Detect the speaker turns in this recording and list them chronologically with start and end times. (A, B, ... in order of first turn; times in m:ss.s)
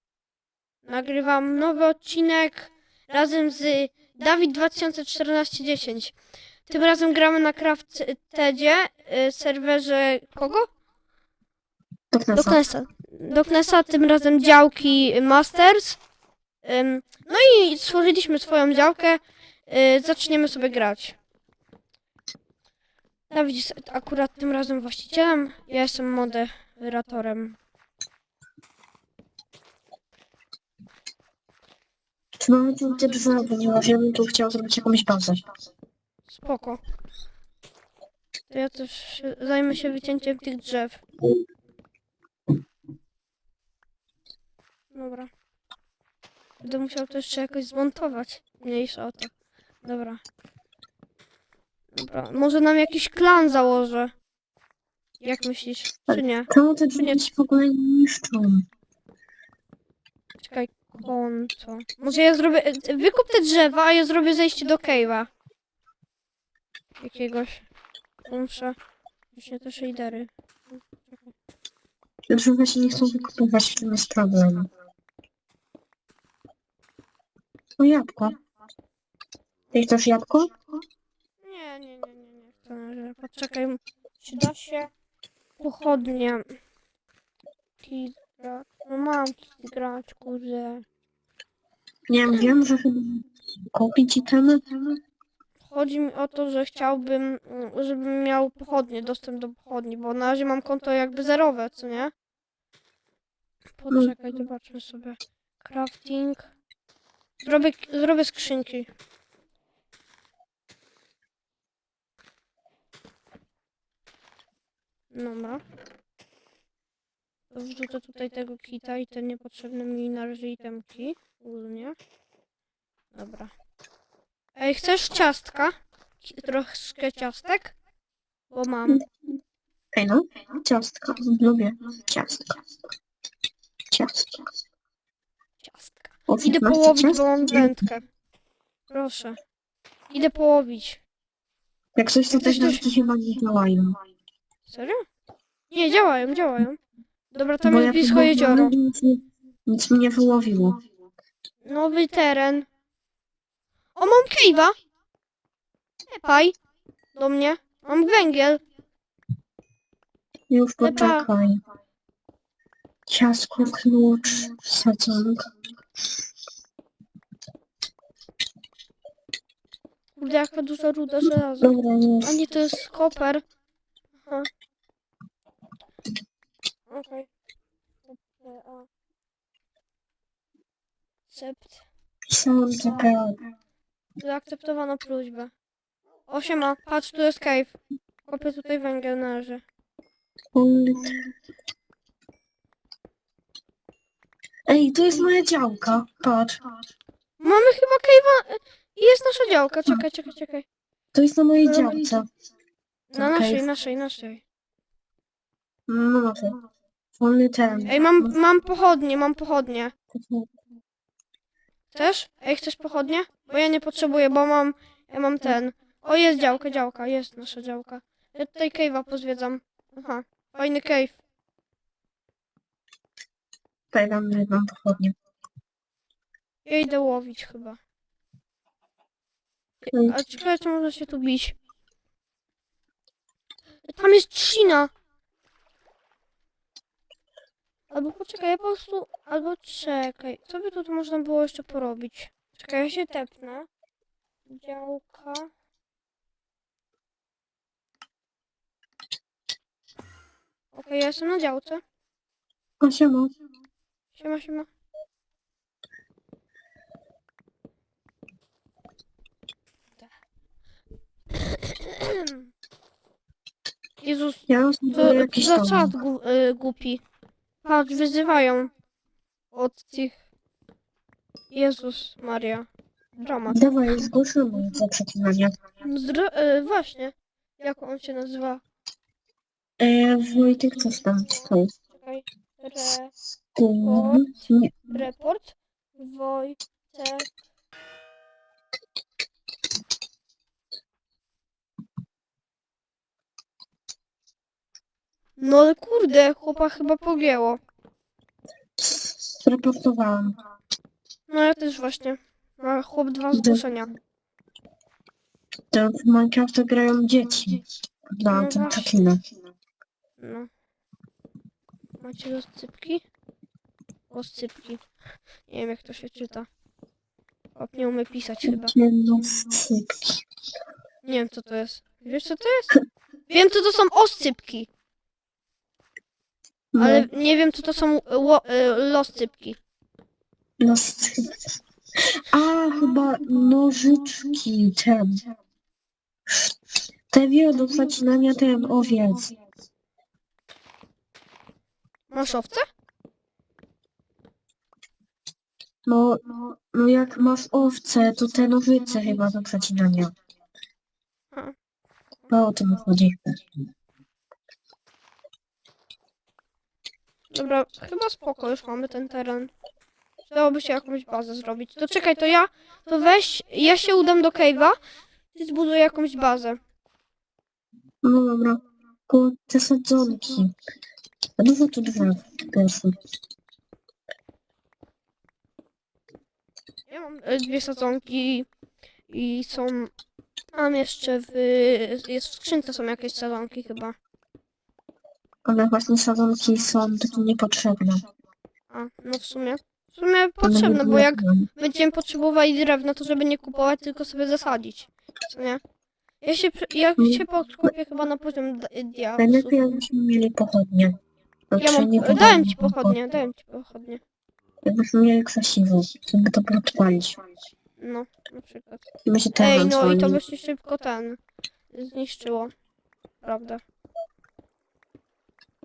0:00.8-0:06.1 A
0:06.6-0:10.7 A
0:12.1-0:12.6 B
0:12.3-0:16.0 A
0:16.6-0:21.2 A
0:23.3-0:27.6 A
0:32.4-0:35.4 B
0:36.3-0:36.8 A
0:38.5-0:41.0 A
0:44.9-0:45.3 A
0:46.6-0:49.3 A
0:49.8-0:50.2 A
0:51.9-0:54.1 A
0:55.2-0:57.2 A
0:56.1-0:58.6 B
1:00.4-1:05.3 A
1:07.0-1:07.6 A
1:08.2-1:08.7 A
1:09.3-1:11.3 A
1:12.3-1:14.7 B
1:17.8-1:18.4 B
1:19.7-1:20.5 B
1:21.4-1:24.9 A
1:25.6-1:26.4 A
1:27.8-1:30.8 A
1:32.1-1:34.8 B
1:35.6-1:42.1 A
1:43.8-1:46.5 A
1:47.4-1:48.9 A
1:55.1-1:55.6 A
1:57.5-2:02.0 A
2:03.1-2:03.5 A
2:04.6-2:07.7 A
2:08.5-2:09.0 A
2:09.9-2:12.6 B
2:13.9-2:14.4 B
2:15.6-2:18.1 A
2:16.3-2:17.8 B
2:18.9-2:19.4 A
2:20.1-2:21.0 A
2:22.0-2:24.0 B
2:22.3-2:22.8 A
2:24.7-2:25.0 A
2:25.7-2:26.8 A
2:27.3-2:28.7 A
2:27.6-2:30.8 B
2:31.6-2:32.7 A
2:34.0-2:34.7 A
2:36.1-2:36.6 A
2:37.1-2:38.6 A
2:40.5-2:41.6 B
2:40.8-2:41.3 A
2:43.1-2:45.5 B
2:50.1-2:53.4 A
2:51.6-2:52.4 B
2:56.9-2:57.3 A
2:58.1-2:58.9 A
3:01.3-3:01.8 A
3:02.3-3:03.4 B
3:04.2-3:05.5 A
3:06.3-3:09.6 A
3:10.5-3:11.2 B
3:14.7-3:16.6 B
3:17.4-3:20.6 A
3:21.1-3:22.3 B
3:21.6-3:22.0 A
3:23.1-3:24.4 A
3:23.2-3:23.6 B
3:25.9-3:26.6 B
3:27.2-3:28.4 B
3:27.8-3:29.9 A
3:30.1-3:30.5 B
3:31.9-3:41.2 A
3:43.9-3:45.1 B
3:46.6-3:47.8 A
3:49.9-3:50.1 B
3:49.9-3:51.6 A
3:53.8-3:54.9 A
3:57.9-4:03.7 A
4:04.5-4:05.5 A
4:10.7-4:11.8 A
4:12.8-4:13.3 B
4:14.1-4:14.7 A
4:21.3-4:22.4 A
4:24.0-4:27.0 A
4:24.5-4:26.0 B
4:27.6-4:28.7 A
4:29.5-4:30.2 A
4:31.5-4:33.6 A
4:33.5-4:35.6 B
4:35.8-4:38.6 A
4:39.8-4:41.7 B
4:41.9-4:43.1 A
4:43.5-4:44.9 B
4:43.8-4:44.2 A
4:44.9-4:47.3 A
4:55.4-4:57.6 A
4:58.8-5:00.4 B
5:01.3-5:03.9 A
5:03.3-5:03.6 B
5:05.7-5:07.6 B
5:08.1-5:09.2 B
5:08.3-5:08.9 A
5:10.2-5:10.5 A
5:12.0-5:13.0 A
5:14.1-5:14.8 A
5:15.5-5:16.5 A
5:17.5-5:18.7 A
5:18.4-5:20.2 B
5:21.0-5:22.7 A
5:23.3-5:24.7 A
5:26.7-5:27.1 B
5:26.8-5:29.6 A
5:30.6-5:31.4 B
5:32.1-5:35.2 B
5:37.1-5:39.3 B
5:42.1-5:42.6 A
5:45.8-5:50.1 B
5:52.3-5:53.4 B
5:57.3-5:59.5 A
6:00.2-6:04.7 A
6:05.3-6:06.6 A
6:08.0-6:10.5 B
6:11.4-6:13.0 B
6:16.9-6:18.5 A
6:19.1-6:19.9 A
6:20.5-6:23.9 A
6:25.4-6:28.0 B
6:28.7-6:35.6 A
6:30.4-6:31.5 B
6:36.2-6:39.8 A
6:37.0-6:37.2 B
6:39.2-6:41.0 B
6:41.5-6:43.0 B
6:41.6-6:44.0 A
6:44.6-6:47.2 B
6:47.8-6:48.8 A
6:49.0-6:50.2 B
6:49.3-6:51.2 A
6:51.7-6:52.5 A
6:53.2-6:53.6 A